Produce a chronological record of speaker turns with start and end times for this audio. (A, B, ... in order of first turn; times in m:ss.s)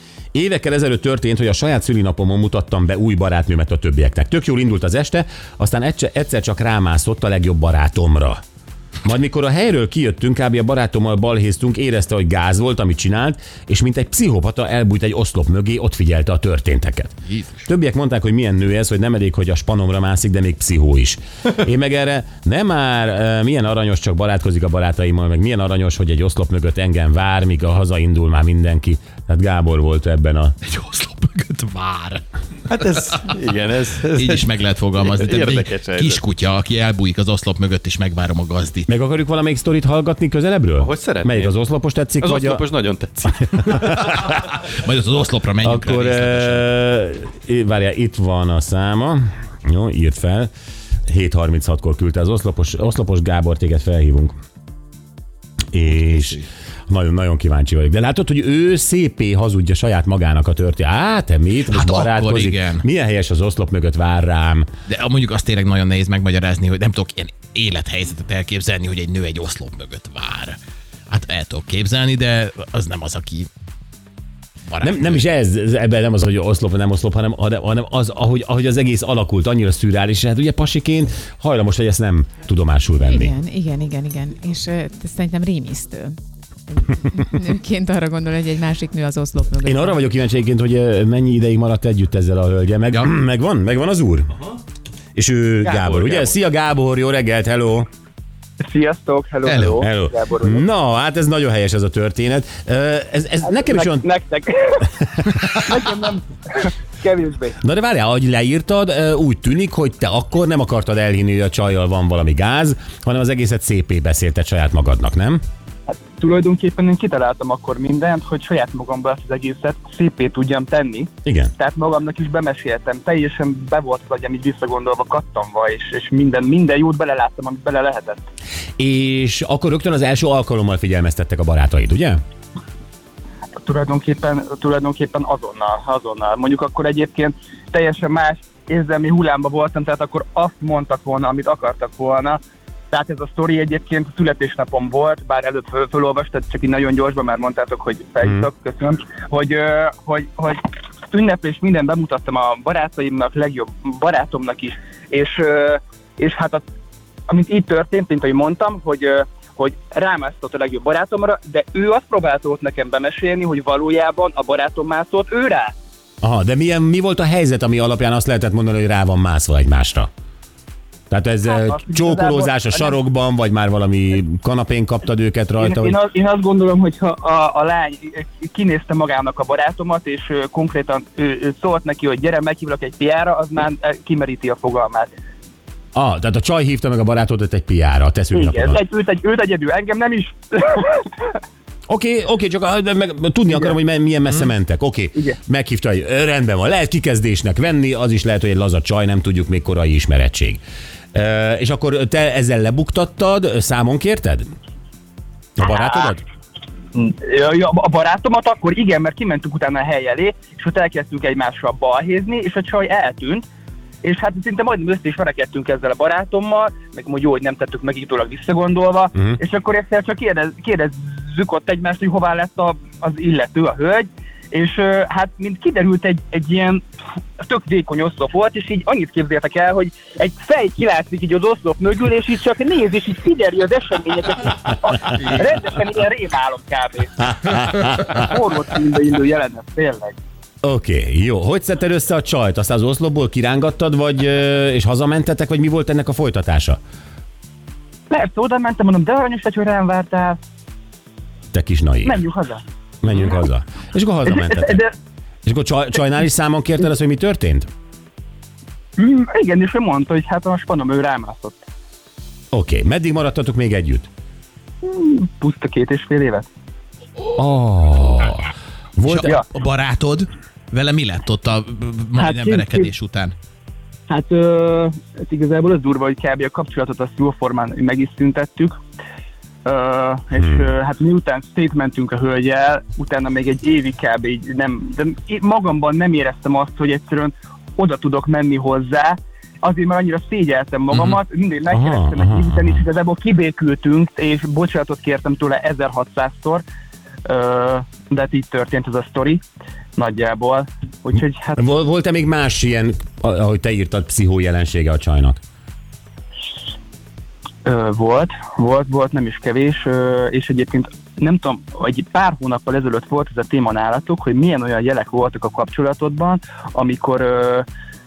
0:00.3-0:08.4 A
0:09.0-0:17.1 A
0:17.2-0:17.6 B
0:17.6-0:30.6 A
0:30.6-0:32.2 B
0:32.7-0:36.2 C
0:34.0-0:38.9 B
0:38.9-0:42.7 A
0:40.8-0:41.6 C
0:42.2-0:44.2 C
0:43.2-0:44.4 A
0:44.3-0:46.7 B
0:45.6-0:50.5 A
0:51.1-0:54.4 A
0:55.7-1:04.7 A
0:55.9-0:56.5 B
1:01.7-1:02.8 B
1:04.9-1:10.6 B
1:11.1-1:13.5 B
1:14.7-1:15.2 B
1:14.8-1:23.3 A
1:23.0-1:26.2 D
1:26.7-1:30.0 D
1:29.6-1:34.3 A
1:35.1-1:37.9 A
1:35.8-1:36.3 B
1:38.6-1:40.6 E
1:39.4-1:39.8 B
1:39.8-1:44.0 A
1:43.4-1:44.9 E
1:45.2-1:45.7 A
1:45.5-1:47.6 E
1:47.6-1:55.4 A
1:56.1-2:08.2 E
2:01.2-2:01.5 A
2:08.8-2:12.2 A
2:13.6-2:22.4 E
2:22.9-2:36.6 E
2:28.2-2:28.5 A
2:37.3-2:45.7 E
2:46.2-2:50.1 A
2:51.1-2:56.0 A
2:51.5-2:53.0 E
2:55.6-3:05.1 E
3:05.9-3:08.8 A
3:08.3-3:11.4 E
3:11.9-3:20.6 A
3:13.5-3:13.8 E
3:21.1-3:24.5 A
3:25.6-3:26.2 A
3:25.6-3:26.1 E
3:26.9-3:33.4 E
3:34.0-3:46.8 E
3:47.4-3:57.2 E
3:57.2-3:58.3 A
3:58.1-4:00.2 E
4:00.6-4:06.8 A
4:08.1-4:10.4 E
4:11.5-4:12.2 A
4:12.0-4:12.6 E
4:13.0-4:14.8 A
4:14.2-4:14.9 E
4:15.4-4:17.7 A
4:19.0-4:21.6 E
4:22.5-4:24.1 A
4:24.8-4:26.5 E
4:27.3-4:29.4 A
4:29.0-4:33.3 B
4:32.2-4:32.9 E
4:34.1-4:38.8 E
4:39.6-4:56.6 E
4:40.4-4:40.7 A
4:50.9-4:51.2 B
4:51.7-4:52.8 A
4:57.2-4:59.4 E
5:00.0-5:01.6 E
5:01.6-5:05.4 A
5:07.6-5:17.6 E